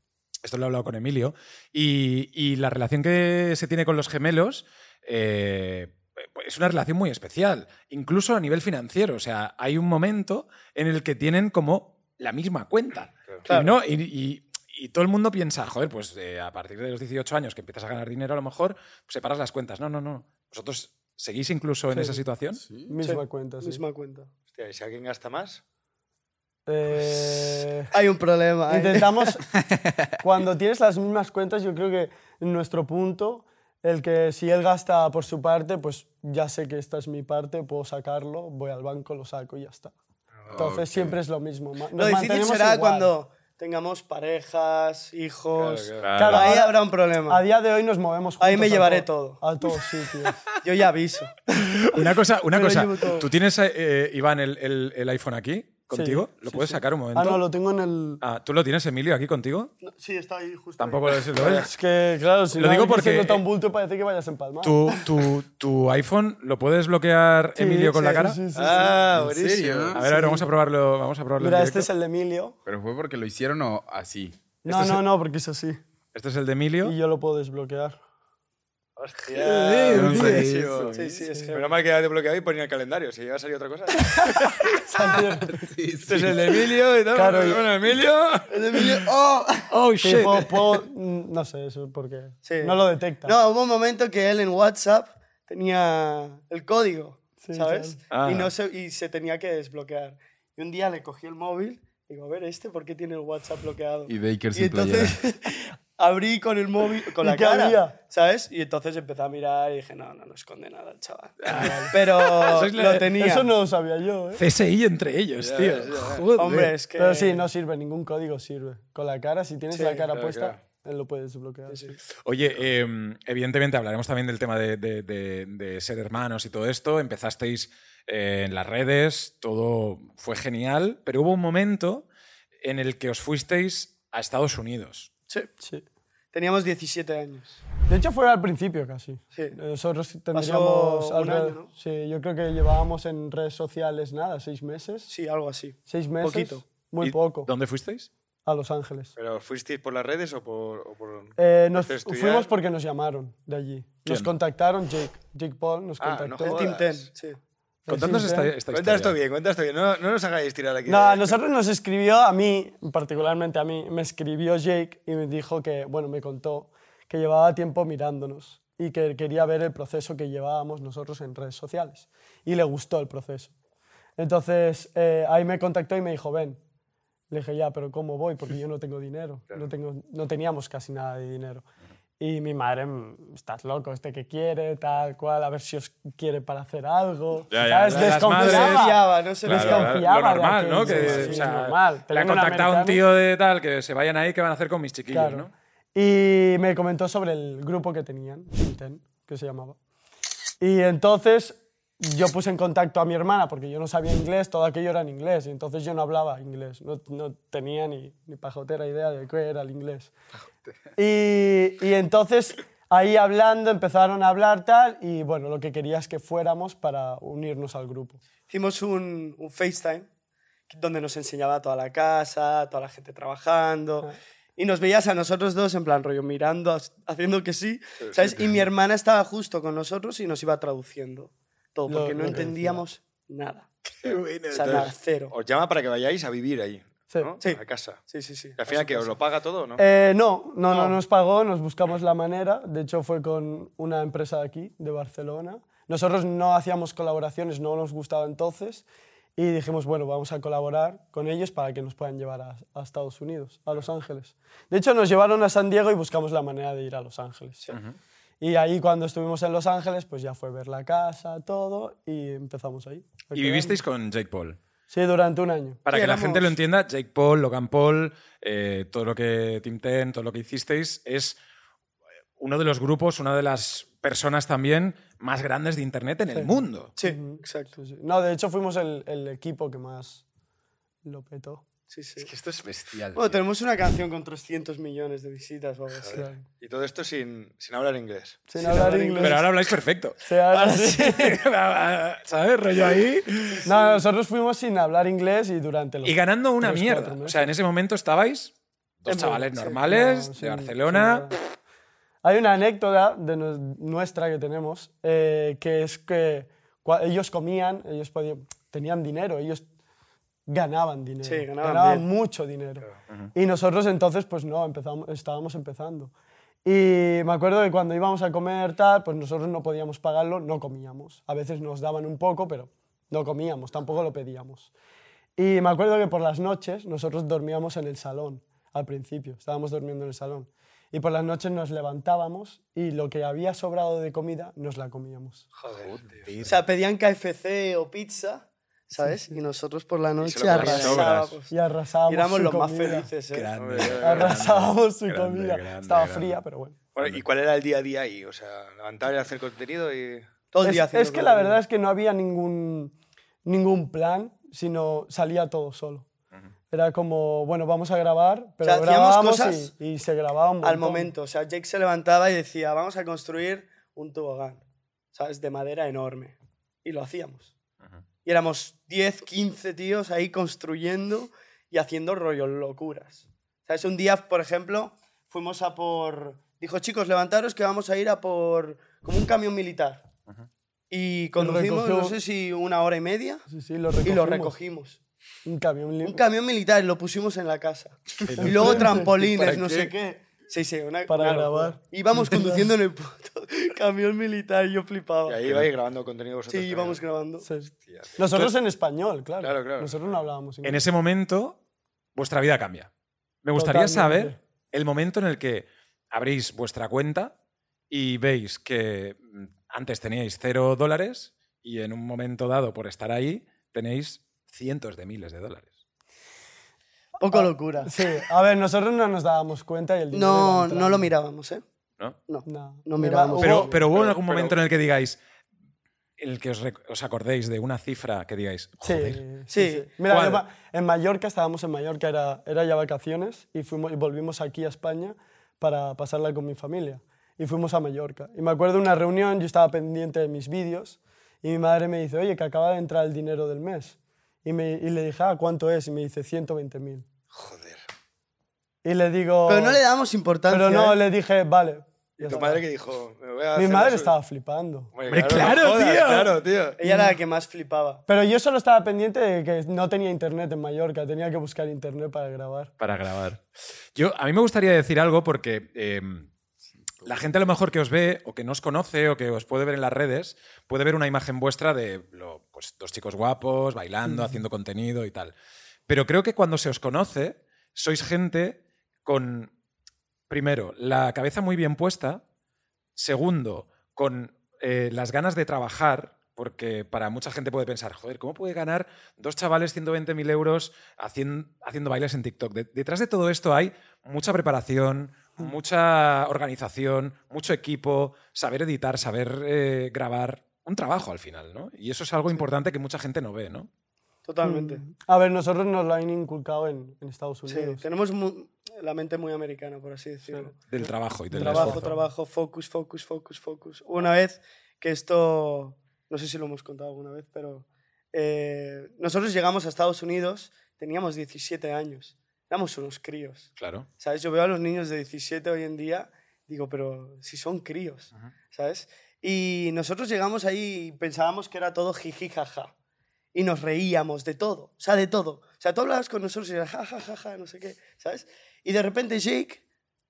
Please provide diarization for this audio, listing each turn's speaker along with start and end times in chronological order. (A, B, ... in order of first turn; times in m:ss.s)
0:00.4-0:22.6 A
0:13.4-0:13.7 B
0:21.9-0:22.2 C
0:22.6-0:22.9 D
0:22.9-0:23.8 C
0:23.0-0:24.3 B
0:24.5-0:25.6 E
0:26.6-0:27.9 C
0:27.9-0:29.4 B
0:28.7-0:29.5 C
0:30.2-0:39.9 C
0:40.4-0:40.6 E
0:40.5-0:41.2 D
0:40.5-0:43.1 C
0:41.9-0:47.4 B
0:45.6-0:46.1 E
0:46.0-0:46.6 A
0:46.1-0:50.6 C
0:48.4-0:49.4 B
0:50.6-0:51.4 B
0:51.5-0:57.4 A
0:52.5-0:53.3 B
0:55.9-0:58.2 C
0:58.2-0:59.7 A
0:59.8-1:01.6 B
1:00.8-1:01.7 A
1:01.4-1:04.8 C
1:02.5-1:03.4 A
1:04.6-1:08.4 A
1:07.6-1:09.0 C
1:08.5-1:10.0 E
1:08.6-1:09.0 B
1:09.1-1:10.1 D
1:09.9-1:11.9 A
1:10.0-1:10.5 C
1:11.4-1:12.6 C
1:12.6-1:14.4 D
1:14.6-1:15.8 C
1:14.7-1:15.0 A
1:16.1-1:17.0 A
1:16.8-1:18.0 C
1:19.0-1:24.4 E
1:19.3-1:20.9 A
1:19.9-1:21.0 D
1:20.9-1:21.7 B
1:21.2-1:21.5 C
1:24.1-1:25.7 C
1:25.1-1:26.4 D
1:26.0-1:28.8 E
1:27.1-1:27.6 C
1:28.5-1:29.6 B
1:29.7-1:30.8 A
1:30.0-1:33.3 C
1:32.4-1:53.5 B
1:37.4-1:38.0 C
1:38.1-1:38.5 A
1:44.1-1:45.2 D
1:47.2-1:48.0 C
1:51.4-1:53.1 A
1:51.5-1:52.0 C
1:53.1-1:54.4 C
1:54.3-1:56.7 A
1:55.4-1:56.3 E
1:56.4-1:57.4 B
1:57.0-2:01.9 C
1:59.7-2:00.1 B
2:00.1-2:00.6 E
2:01.7-2:02.0 B
2:02.2-2:12.0 A
2:12.6-2:15.1 A
2:15.6-2:15.8 C
2:16.3-2:17.6 B
2:17.8-2:25.1 C
2:20.3-2:21.7 B
2:25.1-2:26.6 B
2:25.9-2:27.5 C
2:27.0-2:28.1 A
2:28.4-2:29.1 C
2:29.2-2:32.5 E
2:31.4-2:36.6 C
2:34.0-2:34.3 A
2:36.0-2:37.1 E
2:36.4-2:37.4 B
2:37.8-2:38.5 C
2:37.9-2:39.2 A
2:38.7-2:41.3 E
2:40.8-2:53.5 C
2:54.2-2:56.6 C
2:57.3-3:01.6 C
3:02.2-3:13.0 C
3:07.5-3:15.5 A
3:08.2-3:10.0 B
3:10.8-3:11.5 B
3:15.1-3:19.8 C
3:20.6-3:30.1 C
3:31.0-3:38.2 C
3:38.5-3:40.1 B
3:40.7-3:53.7 B
3:48.0-3:48.4 E
3:51.9-3:52.8 C
3:53.9-3:54.9 A
3:54.0-3:58.0 E
3:54.5-3:55.3 B
3:57.4-3:59.2 B
3:58.6-3:59.8 E
3:59.8-4:17.7 C
4:00.7-4:01.0 B
4:17.7-4:18.0 A
4:18.4-4:23.8 C
4:23.3-4:24.6 A
4:24.9-4:25.8 C
4:25.8-4:31.4 A
4:25.9-4:26.6 B
4:32.4-4:36.9 A
4:36.3-4:40.2 C
4:37.0-4:37.8 B
4:41.0-4:41.6 C
4:41.9-4:42.3 B
4:42.2-4:43.4 A
4:43.1-4:46.3 B
4:45.9-4:48.4 E
4:46.1-4:46.4 C
4:48.5-4:49.4 C
4:48.6-4:49.4 B
4:49.2-4:53.6 A
4:50.2-4:51.4 C
4:50.5-4:50.9 B
4:53.6-4:54.0 B
4:53.6-4:57.5 C
4:56.0-5:01.4 A
4:59.1-5:01.4 C
5:02.2-5:09.6 C
5:10.5-5:16.1 C
5:11.2-5:12.0 B
5:16.6-5:24.7 C
5:25.4-5:35.5 C
5:35.6-5:36.2 E
5:35.8-5:36.6 A
5:36.4-5:41.5 B
5:39.0-5:39.4 C
5:40.2-5:41.3 E
5:40.5-5:41.3 A
5:41.5-5:43.1 C
5:42.0-5:43.5 B
5:43.3-5:46.4 A
5:43.6-5:44.5 E
5:44.0-5:46.8 C
5:46.9-5:50.2 E
5:47.0-5:47.2 A
5:50.5-5:51.6 B
5:50.6-5:52.9 C
5:53.4-5:56.1 C
5:56.7-6:01.1 C
5:58.6-5:59.7 B
6:00.6-6:07.5 B
6:08.2-6:20.0 B
6:20.9-6:23.4 B
6:21.4-6:22.2 C
6:23.5-6:24.5 C
6:24.0-6:25.0 B
6:25.4-6:26.2 C
6:26.0-6:35.5 B
6:28.2-6:29.7 A
6:28.4-6:29.2 C
6:29.1-6:29.9 E
6:31.1-6:32.7 C
6:35.2-6:37.0 E
6:36.5-6:37.5 B
6:37.4-6:40.8 C
6:37.8-6:38.2 E
6:39.4-6:40.0 E
6:40.6-6:41.6 A
6:42.2-6:42.9 A
6:43.4-6:47.3 A
6:43.5-6:44.4 C
6:47.9-6:55.8 A
6:57.2-6:57.9 B
6:57.2-7:01.1 C
7:00.1-7:01.6 B
7:02.3-7:03.7 B
7:02.4-7:03.8 C
7:03.4-7:05.2 A
7:03.9-7:04.6 E
7:06.2-7:09.2 A
7:08.8-7:27.0 C
7:09.5-7:09.8 B
7:10.1-7:10.4 A
7:27.3-7:27.8 E
7:28.8-7:29.8 C
7:29.5-7:31.0 B
7:30.5-7:32.6 C
7:32.2-7:34.1 E
7:33.5-7:34.9 C
7:34.9-7:36.8 E
7:35.1-7:36.4 A
7:36.8-7:38.0 B
7:36.8-7:37.2 C
7:38.1-7:42.7 C
7:42.8-7:43.4 A
7:43.9-7:46.3 A
7:47.0-7:55.3 A
7:54.1-7:54.4 C
7:55.9-7:59.5 A
8:00.3-8:02.2 A
8:03.0-8:23.7 A
8:24.2-8:24.8 B
8:24.4-8:27.8 C
8:27.5-8:30.6 B
8:30.7-8:31.9 A
8:31.3-8:32.0 C
8:31.4-8:52.7 B
8:43.6-8:43.9 A
8:53.3-8:59.6 B